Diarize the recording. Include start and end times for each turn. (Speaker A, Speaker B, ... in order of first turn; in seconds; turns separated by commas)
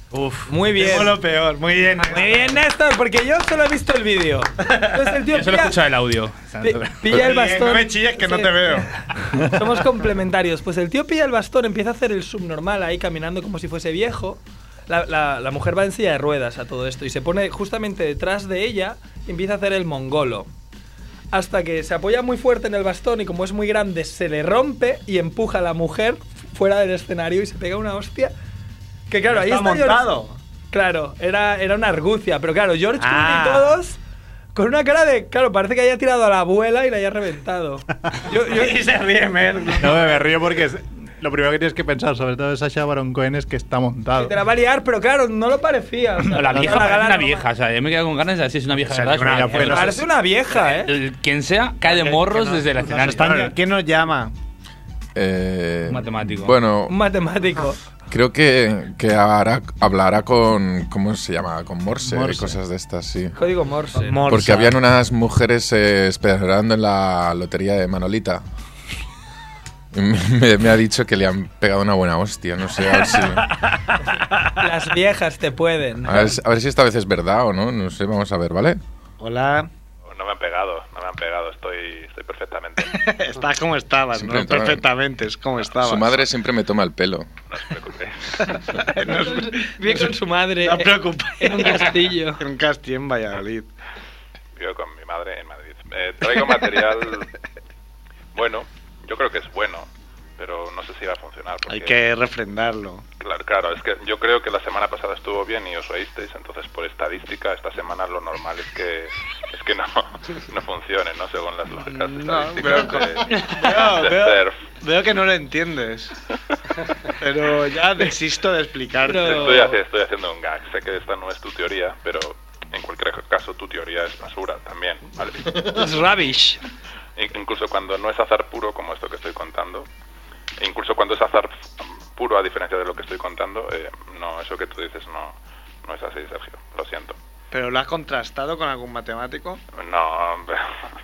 Speaker A: 0.1-0.4, Speaker B: 0.5-1.2, Speaker C: 0.7-2.6, Speaker B: 2.0-5.8, Speaker C: 4.7-5.0, Speaker A: 5.3-7.2, Speaker B: 6.6-20.5, Speaker C: 7.1-8.9, Speaker B: 21.3-28.3, Speaker B: 29.1-30.1, Speaker C: 29.3-30.4, Speaker B: 30.7-34.0, Speaker C: 33.0-33.8, Speaker B: 34.5-38.8, Speaker C: 38.3-40.1, Speaker D: 39.8-44.4, Speaker B: 44.1-47.5, Speaker A: 46.3-49.9, Speaker C: 48.8-50.0, Speaker D: 49.2-50.0, Speaker B: 49.6-50.9, Speaker A: 50.7-53.5, Speaker C: 51.9-54.4, Speaker E: 55.1-57.0, Speaker A: 55.9-56.6, Speaker B: 56.9-57.8, Speaker E: 58.1-63.3, Speaker D: 62.0-62.6, Speaker B: 63.4-64.2, Speaker C: 63.9-64.8, Speaker E: 64.3-68.4, Speaker E: 69.9-73.5, Speaker C: 72.9-74.6, Speaker B: 74.6-76.4, Speaker E: 76.0-78.8, Speaker C: 79.2-79.7, Speaker F: 80.1-83.0, Speaker C: 82.8-86.3, Speaker E: 84.1-84.8, Speaker E: 85.8-87.3, Speaker F: 87.5-88.5, Speaker C: 88.3-93.7, Speaker B: 89.0-92.4, Speaker F: 94.6-97.3, Speaker F: 98.3-102.0, Speaker C: 101.7-103.1, Speaker F: 103.2-114.7, Speaker C: 111.8-116.2, Speaker B: 113.3-113.8, Speaker C: 117.1-119.7, Speaker B: 119.0-119.8, Speaker F: 119.2-125.7, Speaker B: 125.7-126.6, Speaker F: 127.2-129.9, Speaker F: 130.6-137.2, Speaker C: 137.5-139.6, Speaker F: 139.7-140.9